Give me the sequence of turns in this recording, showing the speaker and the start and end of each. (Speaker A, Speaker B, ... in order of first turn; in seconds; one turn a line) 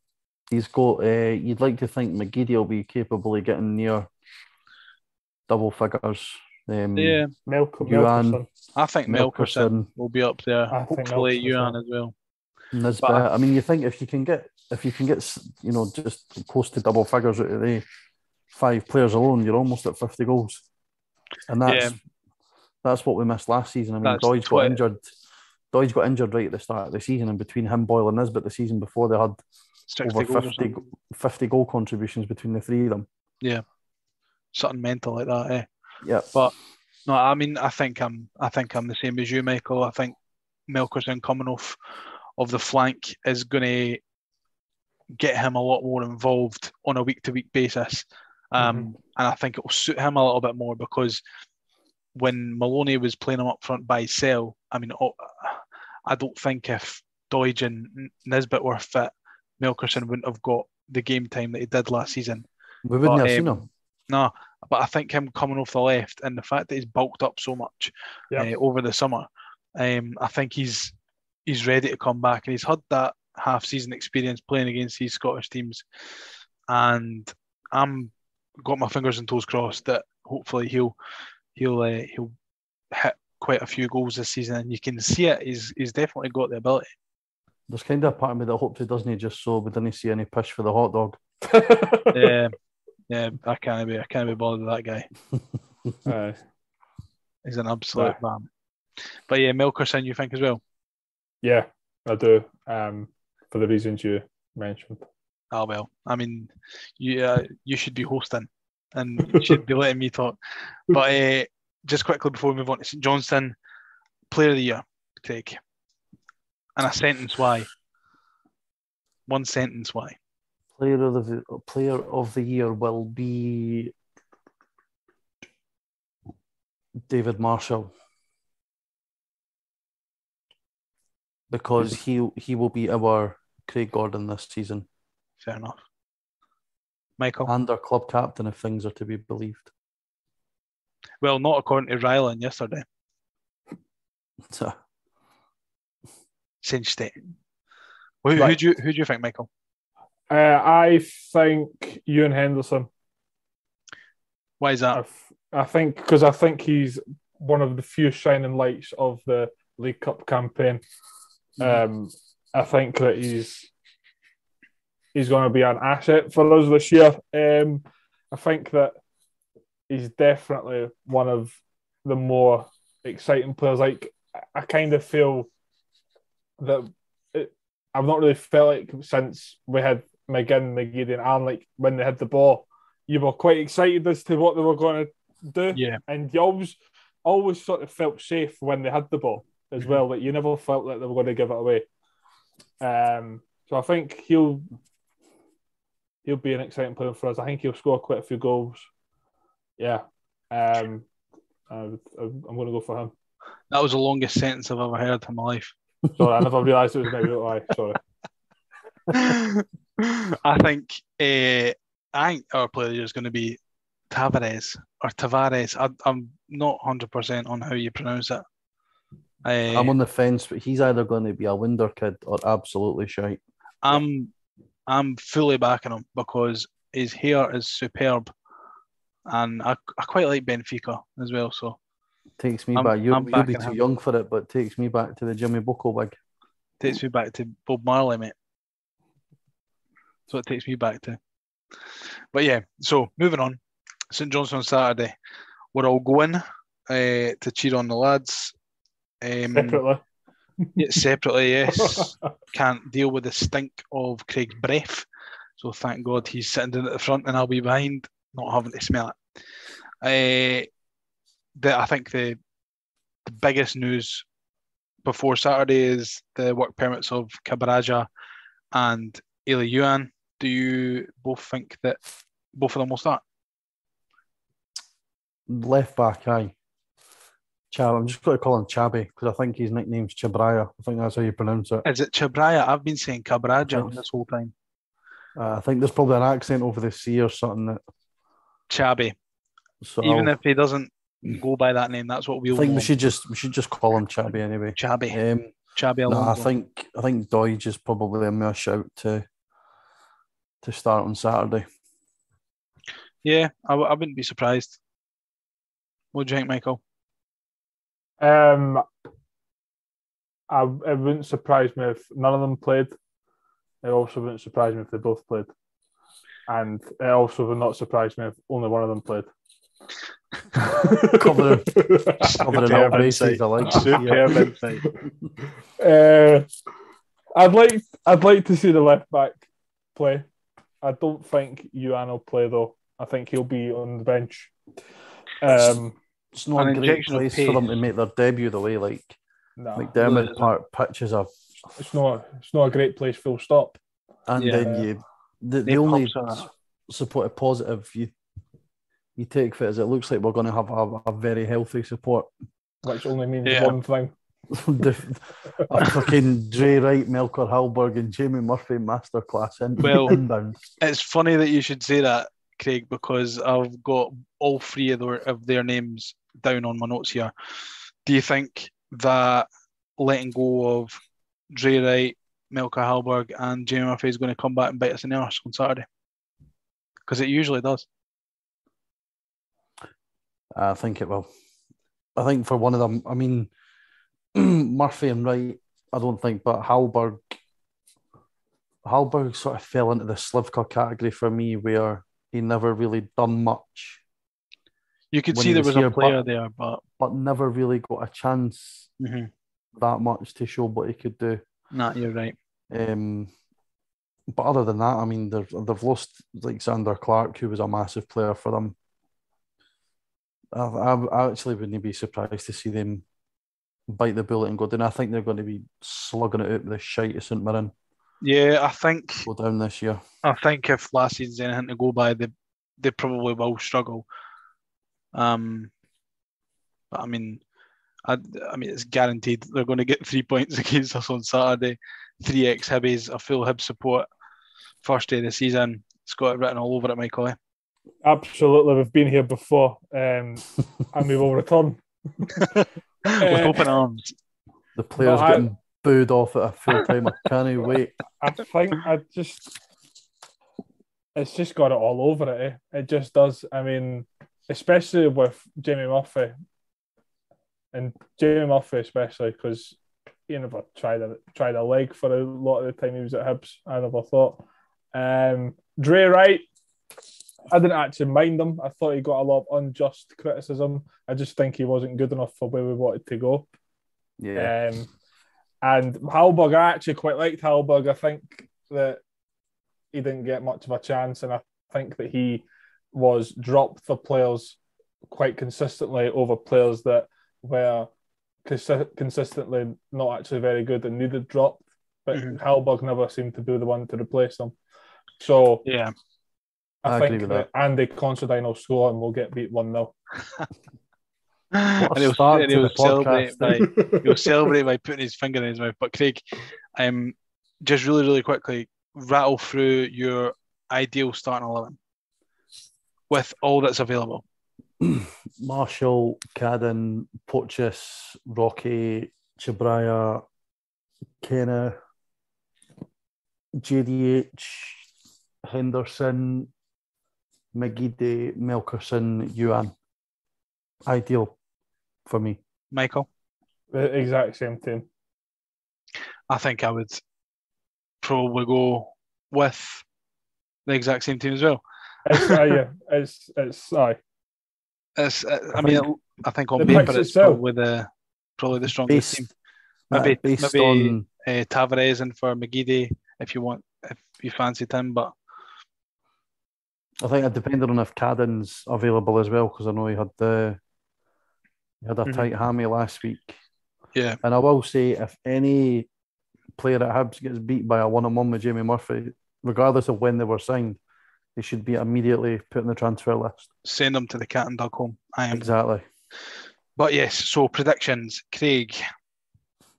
Speaker A: 0.5-4.1
Speaker A: 5.5-7.2
Speaker B: 7.0-7.3
Speaker C: 7.5-8.4
Speaker A: 7.8-8.4
Speaker B: 8.8-12.1
Speaker A: 9.1-9.9
Speaker C: 10.7-11.8
Speaker A: 12.7-17.8
Speaker A: 18.5-20.6
Speaker A: 21.5-22.0
Speaker B: 21.6-21.9
Speaker A: 22.8-25.1
Speaker B: 24.0-24.8
Speaker A: 25.7-29.4
Speaker B: 29.9-30.6
Speaker A: 30.0-33.1
Speaker B: 34.5-35.7
Speaker B: 37.0-40.1
Speaker B: 40.7-41.8
Speaker B: 42.4-44.0
Speaker B: 45.2-51.2
Speaker C: 48.6-48.9
Speaker B: 52.1-62.4
Speaker A: 62.8-63.6
Speaker B: 63.0-70.9
Speaker B: 71.5-75.8
Speaker B: 76.7-80.9
Speaker B: 81.5-82.3
Speaker B: 82.9-86.9
Speaker A: 87.7-91.2
Speaker C: 91.4-92.3
Speaker B: 92.1-92.5
Speaker B: 93.1-95.1
Speaker C: 96.0-96.4
Speaker B: 97.4-98.5
Speaker B: 99.3-100.6
Speaker C: 101.4-105.0
Speaker B: 105.5-113.5
Speaker B: 114.3-115.6
Speaker B: 116.8-117.7
Speaker B: 119.3-120.2
Speaker A: 120.8-123.9
Speaker A: 127.1-127.9
Speaker A: 131.5-134.8
Speaker B: 135.4-135.8
Speaker B: 137.2-137.5
Speaker A: 137.4-139.7
Speaker B: 141.2-142.8
Speaker A: 144.5-144.7
Speaker B: 146.6-147.1
Speaker B: 148.2-149.5
Speaker C: 150.3-152.9
Speaker B: 154.6-155.0
Speaker C: 154.9-160.8
Speaker C: 161.6-163.7
Speaker C: 165.1-168.9
Speaker C: 169.9-175.5
Speaker C: 176.6-191.8
Speaker B: 185.7-186.0
Speaker C: 192.8-194.7
Speaker C: 196.2-198.9
Speaker C: 199.8-201.1
Speaker C: 201.7-203.1
Speaker B: 203.7-205.7
Speaker C: 206.2-208.0
Speaker B: 209.1-213.6
Speaker B: 214.1-218.4
Speaker B: 219.4-219.9
Speaker A: 219.7-223.4
Speaker B: 223.8-224.3
Speaker B: 224.9-228.3
Speaker B: 229.3-231.8
Speaker A: 232.4-236.2
Speaker B: 232.7-233.8
Speaker B: 236.8-238.3
Speaker B: 240.3-241.2
Speaker B: 242.3-243.6
Speaker B: 244.1-245.1
Speaker B: 245.7-248.5
Speaker B: 249.2-249.8
Speaker C: 249.5-250.0
Speaker B: 250.8-255.1
Speaker C: 251.8-252.3
Speaker B: 255.6-259.1
Speaker B: 260.0-260.7
Speaker B: 261.6-262.4
Speaker B: 263.2-264.2
Speaker B: 265.0-268.1
Speaker B: 268.7-272.0
Speaker B: 272.5-273.2
Speaker A: 275.5-276.5
Speaker A: 277.7-281.8
Speaker B: 281.9-284.5
Speaker A: 283.6-284.0
Speaker A: 285.4-287.8
Speaker B: 288.7-289.1
Speaker A: 289.8-290.3
Speaker B: 290.0-292.9
Speaker A: 292.5-295.5
Speaker B: 294.8-295.2
Speaker B: 295.8-296.5
Speaker A: 296.1-299.2
Speaker A: 300.6-301.6
Speaker B: 303.2-304.8
Speaker B: 306.1-306.8
Speaker C: 308.2-308.8
Speaker C: 310.5-312.9
Speaker C: 313.8-315.5
Speaker C: 316.5-319.3
Speaker C: 320.6-324.4
Speaker A: 320.9-324.5
Speaker B: 322.2-324.9
Speaker C: 325.8-326.5
Speaker C: 327.3-330.3
Speaker C: 330.8-334.5
Speaker C: 335.4-335.9
Speaker A: 336.3-339.2
Speaker B: 336.6-337.7
Speaker C: 339.6-340.0
Speaker A: 339.8-341.3
Speaker B: 340.0-340.5
Speaker C: 341.7-343.8
Speaker A: 344.3-348.1
Speaker B: 344.4-344.8
Speaker B: 345.6-346.5
Speaker A: 349.2-352.3
Speaker C: 352.8-354.1
Speaker B: 353.4-353.8
Speaker A: 354.5-360.6
Speaker B: 359.8-360.2
Speaker B: 360.8-367.3
Speaker B: 368.0-371.0
Speaker B: 371.5-375.8
Speaker B: 377.1-377.9
Speaker A: 380.5-381.3
Speaker A: 382.1-383.5
Speaker A: 384.3-387.3
Speaker A: 388.8-394.0
Speaker B: 395.1-396.8
Speaker A: 395.3-396.2
Speaker A: 397.0-398.9
Speaker B: 399.0-399.3
Speaker A: 399.7-401.4
Speaker B: 401.7-402.3
Speaker A: 402.7-403.3
Speaker A: 404.3-408.8
Speaker A: 410.5-413.0
Speaker A: 413.9-417.7
Speaker B: 418.2-419.3
Speaker A: 419.2-420.0
Speaker B: 420.2-424.0
Speaker B: 425.1-425.7
Speaker B: 426.9-427.4
Speaker B: 428.0-434.1
Speaker B: 434.8-437.4
Speaker C: 438.0-442.6
Speaker C: 443.1-443.7
Speaker B: 443.1-444.1
Speaker A: 444.7-447.9
Speaker C: 445.0-445.5
Speaker C: 448.2-449.5
Speaker C: 451.1-456.3
Speaker C: 457.7-464.4
Speaker C: 464.9-466.4
Speaker C: 467.5-473.5
Speaker A: 474.2-474.5
Speaker C: 474.4-474.9
Speaker C: 475.6-479.0
Speaker C: 479.9-487.9
Speaker C: 488.4-494.5
Speaker B: 492.1-492.4
Speaker C: 495.2-495.6
Speaker B: 495.6-495.9
Speaker C: 496.8-499.9
Speaker A: 496.9-497.4
Speaker B: 501.6-506.2
Speaker A: 501.8-503.6
Speaker C: 503.7-504.0
Speaker B: 506.8-511.8
Speaker B: 513.1-514.2
Speaker A: 514.8-520.2
Speaker A: 521.2-521.8
Speaker A: 523.6-524.9
Speaker A: 525.4-526.5
Speaker A: 527.5-529.7
Speaker A: 530.9-531.4
Speaker A: 532.1-532.4
Speaker B: 532.7-533.1
Speaker C: 533.7-534.9
Speaker B: 536.3-537.0
Speaker B: 538.0-539.8
Speaker B: 540.6-541.6
Speaker C: 542.0-544.0
Speaker B: 542.1-542.5
Speaker B: 545.0-549.3
Speaker A: 545.6-545.9
Speaker C: 546.6-547.4
Speaker A: 548.9-549.3
Speaker A: 549.9-551.0
Speaker B: 549.9-555.1
Speaker A: 557.0-560.6
Speaker A: 561.8-563.4
Speaker A: 564.2-565.9
Speaker A: 566.6-570.8
Speaker A: 571.4-573.5
Speaker B: 573.6-575.5
Speaker A: 575.3-575.9
Speaker B: 576.8-578.8